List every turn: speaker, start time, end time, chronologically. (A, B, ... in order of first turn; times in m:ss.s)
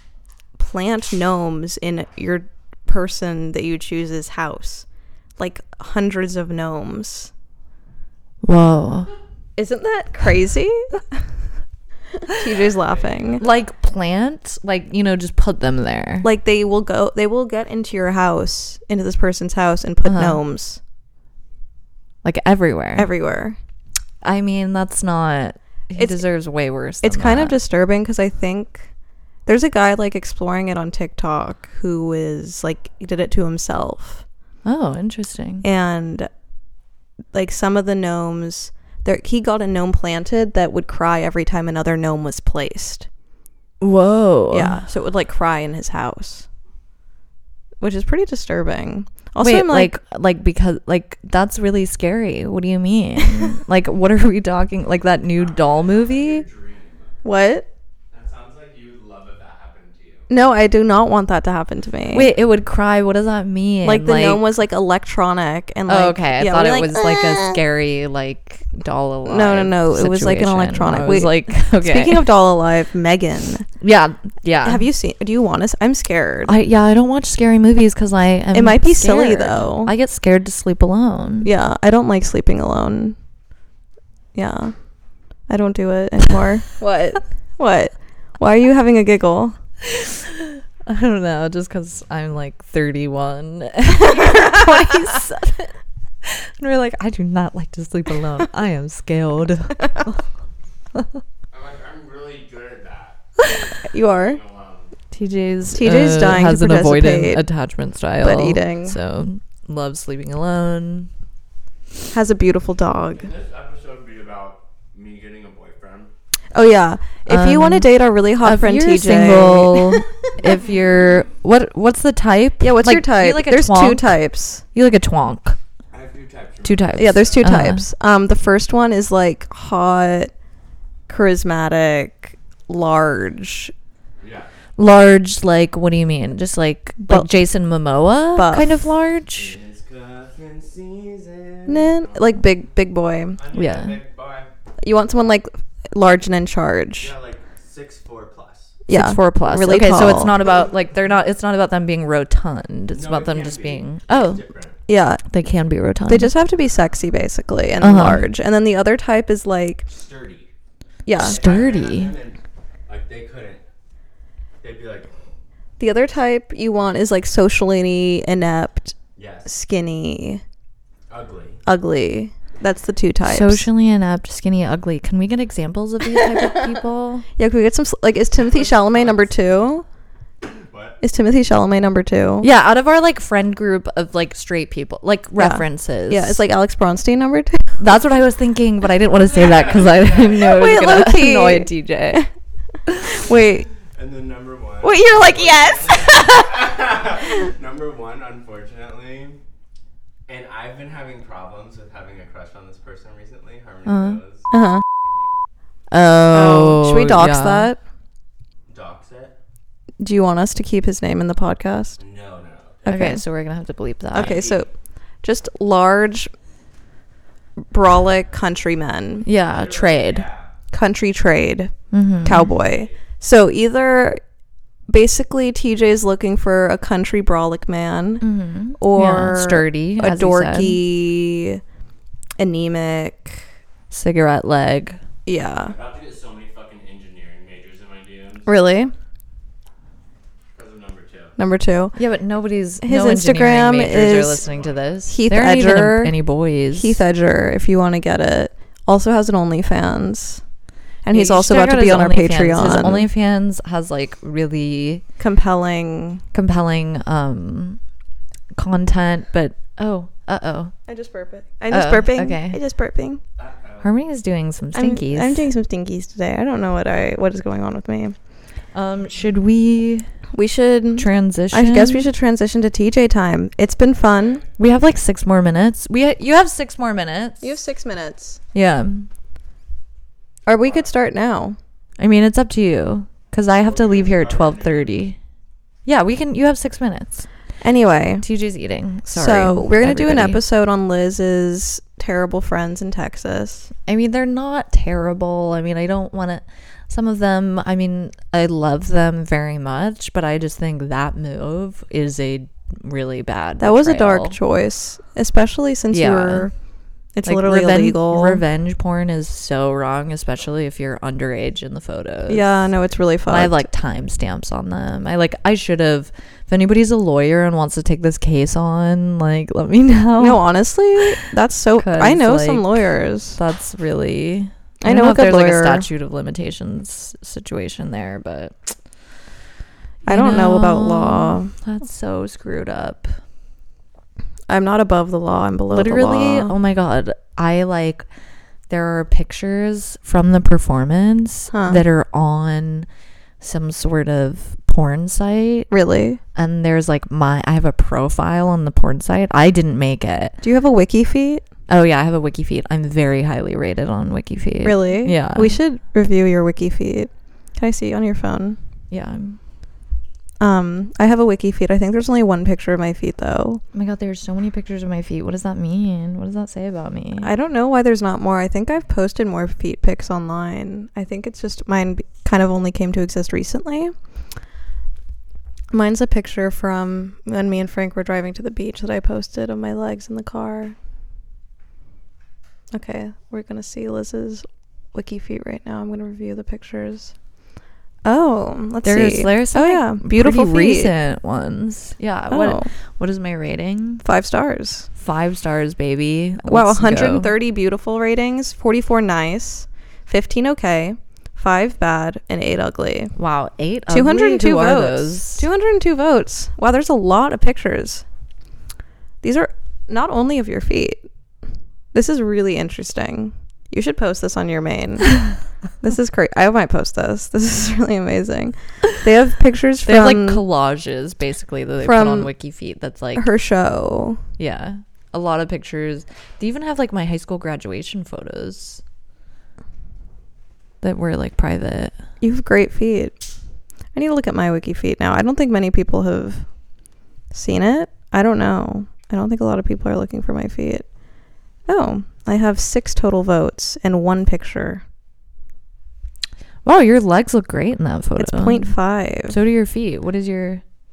0:00.6-0:07.3 A
0:08.4-0:09.1 B
0:09.6-0:11.0 A
0:12.3-0:13.4 A
0:12.4-0:13.6 C
0:13.4-0:16.3 B
0:16.2-0:20.8 A
0:20.0-0:20.4 B
0:22.2-0:23.1 B
0:23.0-0:23.6 A
0:24.2-0:27.6 B
0:26.0-0:26.2 A
0:27.0-0:28.9 A
0:29.4-0:34.2 A
0:34.6-0:35.6 B
0:35.6-0:36.3 A
0:37.3-0:43.1 A
0:43.8-0:44.8 B
0:44.5-0:46.5 A
0:47.8-0:50.0 A
0:49.4-0:56.4 B
0:55.3-0:57.2 C
0:57.2-0:57.7 A
0:58.1-1:00.3 C
1:00.3-1:02.3 A
1:02.1-1:04.5 B
1:03.8-1:07.6 A
1:05.9-1:12.3 B
1:09.2-1:13.6 A
1:13.8-1:14.8 B
1:14.6-1:16.5 A
1:16.5-1:21.5 B
1:18.5-1:19.9 A
1:21.4-1:23.2 A
1:24.3-1:24.7 A
1:25.5-1:29.6 A
1:29.9-1:35.7 B
1:34.1-1:34.6 A
1:36.2-1:40.2 B
1:41.5-1:43.2 C
1:43.8-1:44.4 A
1:44.1-1:44.9 C
1:45.1-1:51.1 B
1:45.7-1:47.4 A
1:48.2-1:49.0 A
1:52.1-1:53.3 A
1:53.1-1:56.1 C
1:56.5-2:00.1 A
1:57.3-1:57.9 B
1:58.4-2:04.1 B
2:02.6-2:04.6 A
2:04.7-2:05.6 B
2:05.9-2:07.6 C
2:06.6-2:07.8 B
2:07.0-2:10.3 A
2:11.1-2:13.7 A
2:14.2-2:14.5 C
2:14.8-2:19.6 B
2:17.0-2:17.3 A
2:18.3-2:18.9 A
2:19.3-2:22.4 C
2:21.7-2:23.4 A
2:23.4-2:24.5 C
2:23.5-2:24.0 B
2:24.8-2:27.1 A
2:27.0-2:28.8 C
2:28.9-2:30.3 A
2:28.9-2:34.4 B
2:30.1-2:30.7 C
2:32.9-2:34.8 C
2:34.9-2:35.2 A
2:35.3-2:36.3 B
2:36.0-2:39.9 A
2:37.8-2:38.3 B
2:39.9-2:40.5 C
2:41.0-2:41.4 A
2:41.2-2:43.6 C
2:41.2-2:42.1 B
2:44.6-2:45.1 C
2:45.8-2:50.4 A
2:49.2-2:49.5 C
2:51.1-2:51.6 C
2:51.6-2:53.7 A
2:53.2-2:57.3 B
2:57.4-2:59.8 A
2:58.5-2:59.2 C
3:00.4-3:01.0 C
3:01.0-3:02.5 A
3:02.4-3:06.4 B
3:05.4-3:07.8 A
3:07.8-3:12.2 B
3:09.2-3:10.8 C
3:10.4-3:12.3 A
3:13.1-3:13.6 A
3:13.9-3:19.4 C
3:14.8-3:16.7 A
3:20.3-3:25.3 C
3:23.9-3:24.2 B
3:24.5-3:24.8 A
3:25.9-3:27.7 B
3:26.3-3:27.8 A
3:28.7-3:29.4 C
3:30.0-3:32.0 A
3:32.0-3:33.1 C
3:32.8-3:33.2 A
3:32.9-3:34.4 B
3:34.1-3:36.3 A
3:34.1-3:34.7 C
3:37.7-3:39.3 A
3:39.2-3:40.3 B
3:39.4-3:40.5 C
3:40.7-3:44.2 A
3:41.9-3:42.5 B
3:42.5-3:43.0 C
3:44.9-3:48.3 A
3:48.2-3:50.8 B
3:48.8-3:51.6 A
3:52.4-3:53.4 A
3:53.9-3:55.0 B
3:55.3-3:55.7 A
3:55.6-3:58.6 C
3:58.4-3:58.9 A
4:00.5-4:01.4 C
4:01.4-4:02.0 A
4:02.0-4:07.0 B
4:02.8-4:04.4 A
4:04.4-4:05.1 C
4:05.1-4:06.1 A
4:06.7-4:10.4 A
4:11.0-4:13.1 A
4:11.1-4:15.0 B
4:15.2-4:16.2 A
4:16.3-4:17.8 B
4:18.5-4:20.7 B
4:20.9-4:23.2 A
4:21.7-4:22.6 B
4:23.4-4:23.9 C
4:23.8-4:25.4 B
4:24.7-4:28.1 A
4:28.7-4:30.1 B
4:30.3-4:34.4 A
4:31.0-4:32.1 B
4:34.1-4:34.5 C
4:34.6-4:37.5 B
4:37.4-4:38.4 A
4:38.5-4:39.1 B
4:40.4-4:41.6 A
4:42.0-4:45.2 B
4:43.6-4:45.1 C
4:45.8-4:47.3 B
4:47.6-4:48.2 A
4:48.2-4:50.4 B
4:49.1-4:53.7 A
4:53.9-5:04.4 B
5:03.6-5:06.5 A
5:05.9-5:06.5 B
5:07.1-5:08.4 A
5:07.2-5:12.5 B
5:12.3-5:13.6 A
5:13.3-5:20.4 B
5:20.2-5:23.4 A
5:21.8-5:28.7 B
5:24.8-5:25.9 A
5:30.0-5:31.5 A
5:30.0-5:33.1 B
5:34.5-5:36.6 A
5:35.7-5:38.0 B
5:38.7-5:42.9 B
5:41.5-5:41.8 A
5:43.4-5:45.7 B
5:45.7-5:46.2 A
5:46.3-5:50.4 B
5:50.4-5:51.4 A
5:51.7-5:55.6 B
5:54.6-5:58.6 A
5:58.9-5:59.4 B
6:00.4-6:03.6 A
6:03.7-6:07.3 B
6:07.2-6:13.9 A
6:15.7-6:20.7 A
6:22.7-6:27.1 A
6:28.0-6:30.9 A
6:28.8-6:34.0 B
6:32.3-6:32.7 A
6:34.0-6:34.9 A
6:35.0-6:37.3 B
6:36.4-6:43.1 A
6:43.2-6:45.4 B
6:43.9-6:48.0 A
6:49.2-6:51.0 A
6:51.9-6:55.3 A
6:55.8-7:00.4 A
6:59.9-7:03.3 B
7:01.8-7:02.3 A
7:03.1-7:04.2 A
7:04.4-7:08.8 B
7:10.8-7:11.9 B
7:12.2-7:13.2 A
7:13.9-7:16.6 A
7:17.3-7:20.9 A
7:21.6-7:24.8 A
7:26.6-7:30.6 B
7:28.2-7:29.4 A